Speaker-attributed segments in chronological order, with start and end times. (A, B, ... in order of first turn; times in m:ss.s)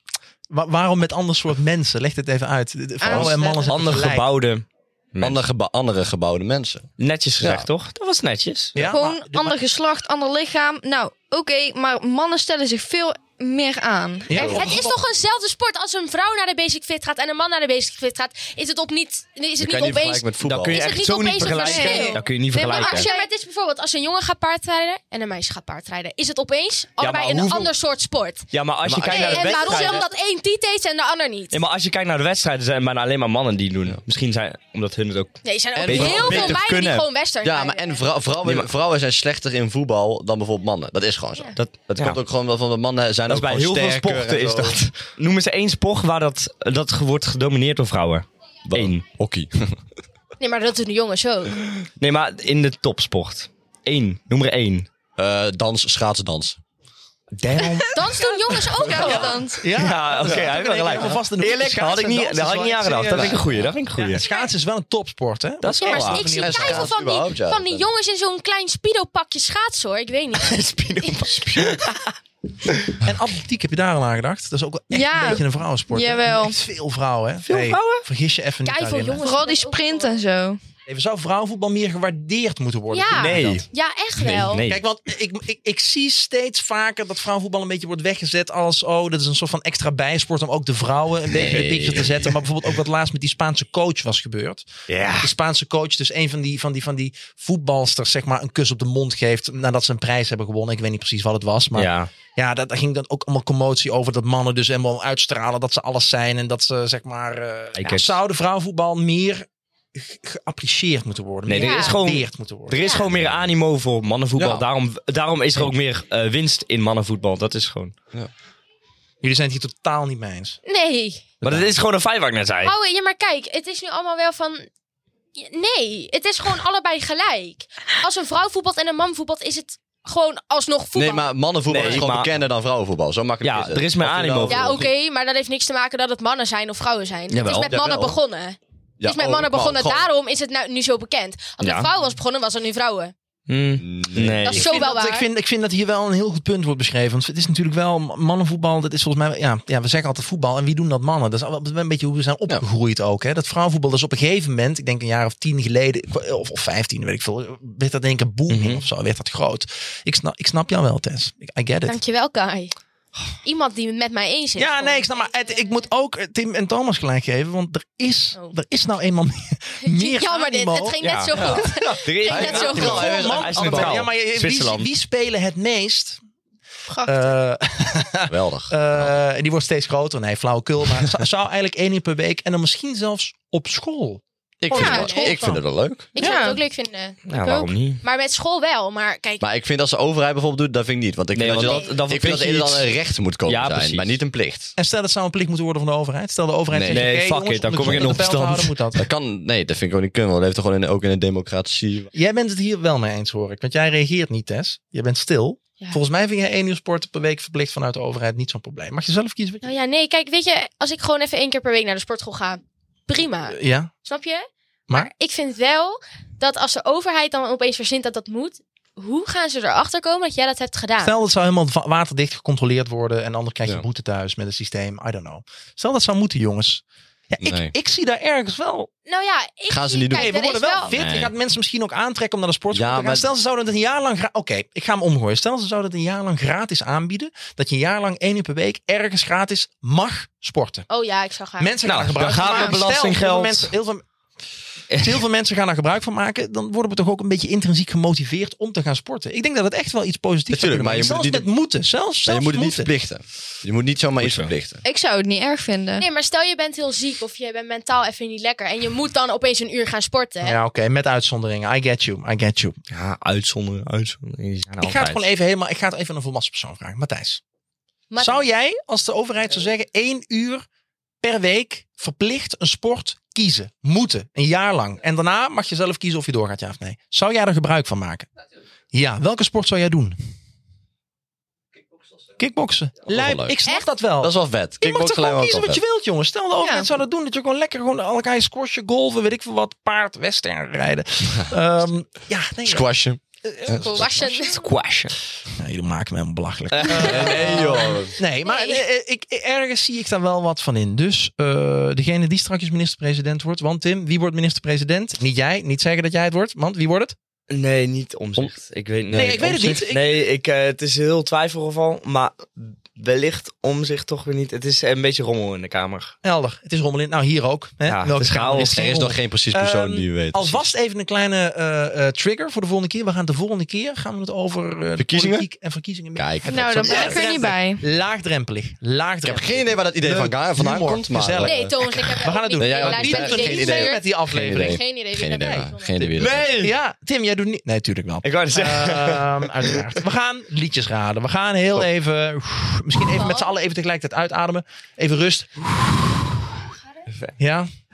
0:00.5-0:04.2 A
0:03.0-0:03.7 B
0:03.1-0:03.3 C
0:03.6-0:05.4 D
0:05.2-0:06.9 C
0:07.0-0:08.8 D
0:07.4-0:07.7 C
0:08.7-0:09.6 A
0:08.8-0:14.5 B
0:14.3-0:15.0 A
0:14.3-0:14.7 C
0:14.3-0:28.5 E
0:19.6-0:20.8 C
0:20.4-0:23.1 D
0:21.4-0:23.3 B
0:27.0-0:27.7 D
0:28.5-0:30.1 D
0:28.8-0:30.0 C
0:29.0-0:31.6 E
0:31.5-0:37.0 D
0:35.4-0:38.0 E
0:35.8-0:44.8 C
0:41.6-0:42.2 D
0:43.3-0:49.0 D
0:48.7-0:49.8 C
0:50.4-0:51.6 E
0:52.0-0:54.9 D
0:55.2-0:56.6 C
0:57.4-0:57.9 D
0:57.5-0:57.9 A
0:57.6-0:59.7 B
0:57.9-0:59.4 E
0:59.0-1:03.4 A
0:59.6-1:04.2 D
1:03.1-1:03.7 C
1:04.0-1:06.9 A
1:04.1-1:04.5 E
1:05.6-1:06.3 D
1:05.8-1:11.8 E
1:06.2-1:07.9 C
1:10.4-1:12.1 D
1:12.6-1:13.0 D
1:13.0-1:19.3 A
1:14.9-1:16.6 B
1:17.4-1:18.0 D
1:18.6-1:20.2 E
1:19.2-1:20.6 B
1:20.9-1:23.6 A
1:22.9-1:24.6 E
1:23.1-1:23.6 D
1:24.2-1:24.8 D
1:24.6-1:34.6 A
1:31.3-1:32.3 C
1:34.9-1:35.3 D
1:35.2-1:52.8 A
1:41.7-1:42.1 D
1:47.8-1:48.2 D
1:51.4-1:57.9 D
1:51.5-1:52.0 E
1:52.8-1:53.1 E
1:53.1-1:53.4 C
1:54.4-1:54.6 C
1:59.2-2:00.6 A
2:00.6-2:01.2 E
2:01.4-2:01.7 A
2:01.4-2:02.7 D
2:02.6-2:04.7 E
2:05.4-2:11.9 E
2:10.9-2:14.9 C
2:11.7-2:12.4 D
2:13.4-2:14.7 D
2:14.5-2:23.1 E
2:17.3-2:18.2 C
2:19.0-2:20.1 C
2:21.6-2:21.9 D
2:23.5-2:24.8 D
2:23.8-2:24.6 C
2:24.4-2:25.2 E
2:24.5-2:42.0 A
2:38.5-2:38.8 D
2:41.8-2:42.7 E
2:43.4-2:45.7 E
2:44.6-2:51.7 A
2:49.8-2:53.2 E
2:51.0-2:54.9 D
2:52.2-2:54.1 C
2:52.4-2:56.2 A
2:56.9-2:57.2 B
2:57.0-3:04.2 A
2:58.3-2:59.1 C
3:04.6-3:06.1 C
3:04.7-3:05.5 B
3:04.7-3:05.6 E
3:04.8-3:05.4 A
3:06.1-3:07.2 E
3:06.2-3:06.6 B
3:07.3-3:08.0 D
3:07.3-3:07.7 B
3:08.0-3:09.4 E
3:09.4-3:14.7 C
3:11.3-3:12.9 D
3:11.6-3:11.9 E
3:13.4-3:14.2 D
3:14.8-3:19.1 A
3:16.7-3:17.1 C
3:16.9-3:18.5 D
3:17.8-3:22.1 C
3:22.1-3:29.6 A
3:29.6-3:41.1 E
3:33.5-3:33.9 A
3:41.0-3:48.9 A
3:47.4-3:47.7 C
3:49.0-3:50.9 E
3:49.7-3:50.4 C
3:50.1-4:00.9 A
3:50.9-3:51.3 C
3:52.7-3:53.3 C
4:00.9-4:01.7 E
4:01.6-4:04.0 A
4:01.8-4:03.7 D
4:02.4-4:02.7 B
4:04.9-4:05.2 D
4:05.0-4:12.9 A
4:10.5-4:11.5 C
4:12.2-4:14.8 C
4:14.2-4:14.5 D
4:14.8-4:16.0 B
4:16.0-4:20.6 E
4:20.4-4:22.8 A
4:22.9-4:25.3 D
4:24.8-4:27.4 A
4:28.1-4:28.5 E
4:28.2-4:30.6 A
4:31.2-4:38.3 A
4:38.9-4:40.2 A
4:42.4-4:52.9 A
4:43.1-4:43.6 C
4:44.2-4:45.8 C
4:46.6-4:46.9 B
4:52.6-4:54.0 C
4:53.4-4:54.6 A
4:53.8-4:54.6 E
4:54.5-4:55.2 D
4:55.6-5:07.1 A
4:56.7-4:57.7 D
4:56.9-4:58.2 C
4:58.4-4:58.8 E
5:07.5-5:16.1 D
5:09.1-5:10.1 A
5:16.2-5:34.8 A
5:17.8-5:18.9 D
5:18.7-5:20.7 C
5:25.0-5:25.5 C
5:26.1-5:27.2 C
5:26.4-5:27.8 B
5:29.2-5:31.7 C
5:31.4-5:36.1 E
5:32.6-5:36.5 C
5:36.1-5:36.7 D
5:36.5-5:46.5 A
5:38.2-5:39.8 D
5:43.1-5:43.5 E
5:47.4-5:47.7 A